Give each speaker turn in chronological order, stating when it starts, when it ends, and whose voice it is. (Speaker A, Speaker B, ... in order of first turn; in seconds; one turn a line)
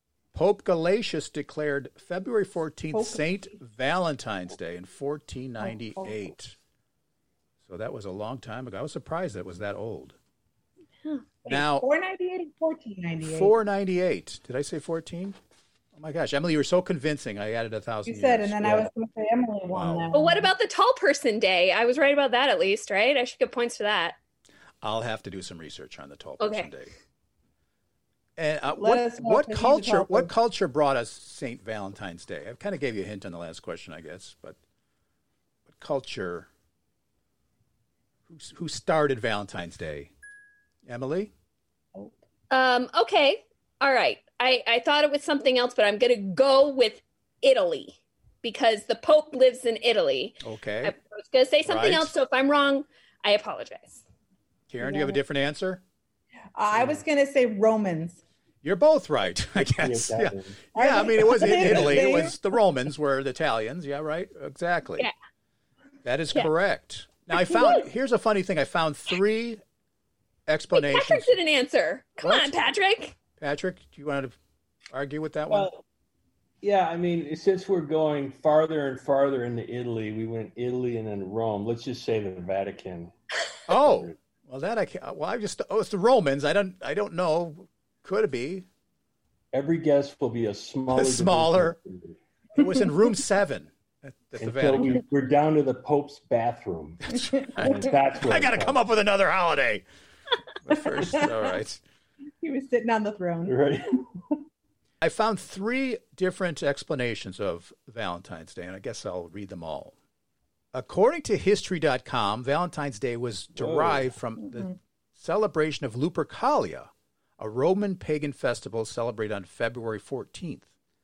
Speaker A: 0.3-6.6
Speaker B: 2.9-3.5
Speaker B: 5.6-6.3
Speaker A: 7.7-10.2
Speaker C: 11.0-11.4
Speaker A: 11.5-11.9
Speaker B: 11.5-13.5
Speaker A: 13.2-15.4
Speaker A: 15.9-18.9
Speaker B: 18.1-20.5
Speaker A: 19.7-20.1
Speaker C: 20.1-24.2
Speaker A: 24.8-26.9
Speaker C: 26.4-26.7
Speaker A: 28.4-34.6
Speaker B: 28.8-30.3
Speaker A: 35.7-36.5
Speaker A: 38.3-40.1
Speaker A: 40.9-41.3
Speaker C: 42.5-54.0
Speaker A: 50.4-51.0
Speaker A: 51.7-52.1
Speaker A: 54.7-55.8
Speaker B: 54.8-55.2
Speaker B: 56.6-58.2
Speaker D: 56.7-57.0
Speaker A: 58.6-65.1
Speaker D: 59.6-62.3
Speaker B: 60.8-62.4
Speaker A: 66.0-69.6
Speaker C: 67.4-67.8
Speaker A: 70.5-71.3
Speaker C: 70.7-73.2
Speaker A: 72.2-72.5
Speaker A: 73.4-74.4
Speaker A: 74.9-75.7
Speaker D: 75.5-75.8
Speaker D: 76.6-83.1
Speaker A: 83.7-88.7
Speaker D: 83.7-84.2
Speaker D: 89.5-92.2
Speaker A: 90.9-91.8
Speaker A: 92.5-95.0
Speaker D: 94.4-98.8
Speaker A: 97.1-99.8
Speaker B: 97.2-97.8
Speaker A: 100.6-101.8
Speaker B: 101.0-101.3
Speaker B: 102.4-103.6
Speaker D: 103.5-104.1
Speaker A: 105.0-110.0
Speaker A: 110.7-120.7
Speaker D: 113.5-114.1